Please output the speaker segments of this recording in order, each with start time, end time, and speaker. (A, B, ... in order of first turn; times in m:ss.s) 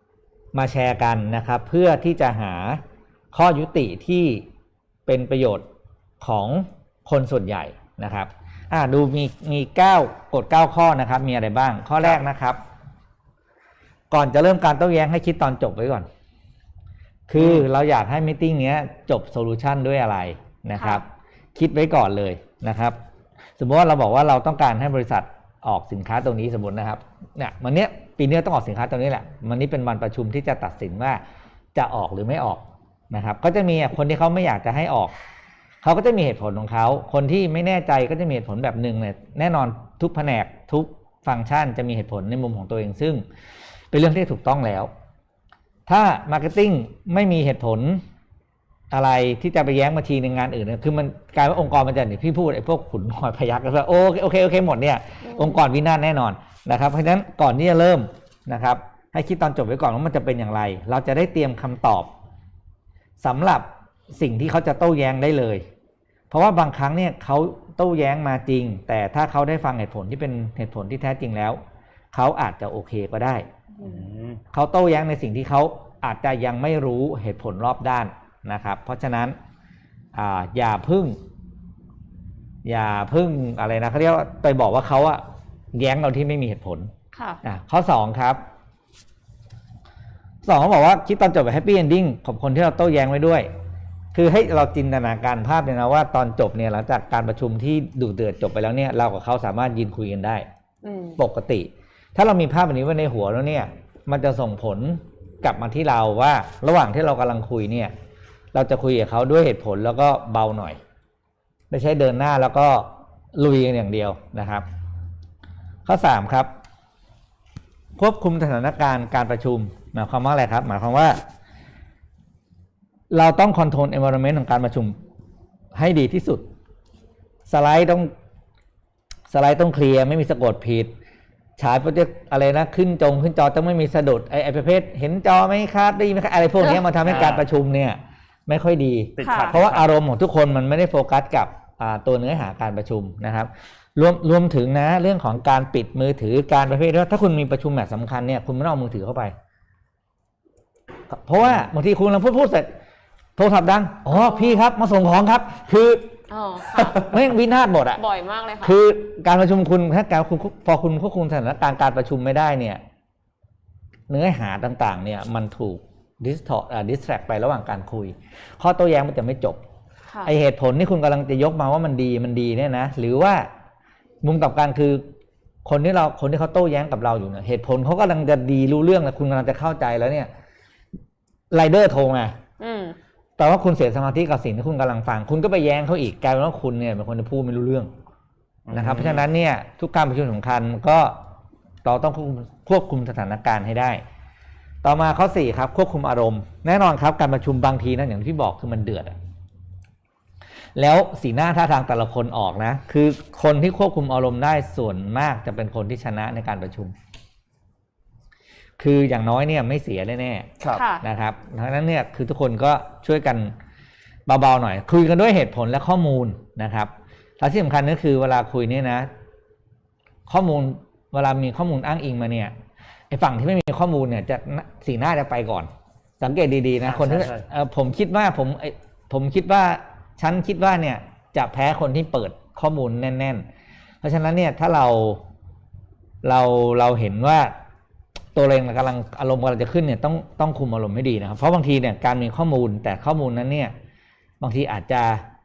0:00.5-0:02.8 A
0:03.3-0:04.4 A
0:05.0-0:05.6 A
0:06.2-0:12.6 A
0:14.1-0:16.0 A
0:17.3-0:23.0 A
0:17.4-0:17.6 B
0:20.8-0:21.0 C
0:23.6-0:31.2 A
0:31.7-0:35.1 A
0:35.8-0:43.2 A
0:43.9-0:44.9 A
0:45.9-0:48.0 A
0:48.9-1:02.1 A
0:55.2-0:55.6 C
1:03.2-1:05.6 A
1:06.3-1:11.6 A
1:12.1-1:13.4 A
1:13.8-1:14.0 C
1:13.8-1:14.4 B
1:14.5-1:19.3 A
1:20.1-1:21.2 A
1:22.6-1:25.2 A
1:25.7-1:26.9 A
1:27.1-1:27.4 C
1:27.4-1:28.4 A
1:30.4-1:33.5 A
1:34.1-1:40.4 A
1:40.8-1:41.2 C
1:41.2-1:47.9 A
1:48.5-1:50.8 A
1:51.7-1:54.6 A
1:55.8-1:56.5 A
1:58.0-2:01.2 A
2:03.1-2:05.0 A
2:05.8-2:06.4 A
2:07.4-2:08.1 A
2:09.3-2:10.9 A
2:11.6-2:29.3 A
2:17.0-2:17.4 B
2:19.2-2:19.8 B
2:19.2-2:19.6 C
2:31.1-2:32.7 A
2:33.4-2:36.1 A
2:34.1-2:34.6 C
2:36.3-2:37.2 C
2:36.7-2:38.0 A
2:37.9-2:38.8 C
2:38.6-2:42.8 A
2:44.1-2:49.6 A
2:50.1-2:50.3 C
2:50.2-2:53.4 A
2:54.2-2:55.0 A
2:55.6-3:00.3 A
3:01.5-3:02.4 A
3:02.6-3:03.0 C
3:03.4-3:07.9 A
3:08.6-3:09.3 B
3:08.7-3:11.2 A
3:11.8-3:14.0 A
3:14.8-3:19.2 A
3:20.8-3:26.9 A
3:28.8-3:30.5 A
3:30.7-3:31.0 C
3:31.0-3:33.5 A
3:34.3-3:39.1 A
3:40.3-3:42.5 A
3:43.1-3:45.7 A
3:46.2-3:53.4 A
3:46.9-3:47.4 B
3:54.0-3:55.2 A
3:56.2-3:57.5 A
3:58.3-4:03.7 A
4:04.4-4:05.2 A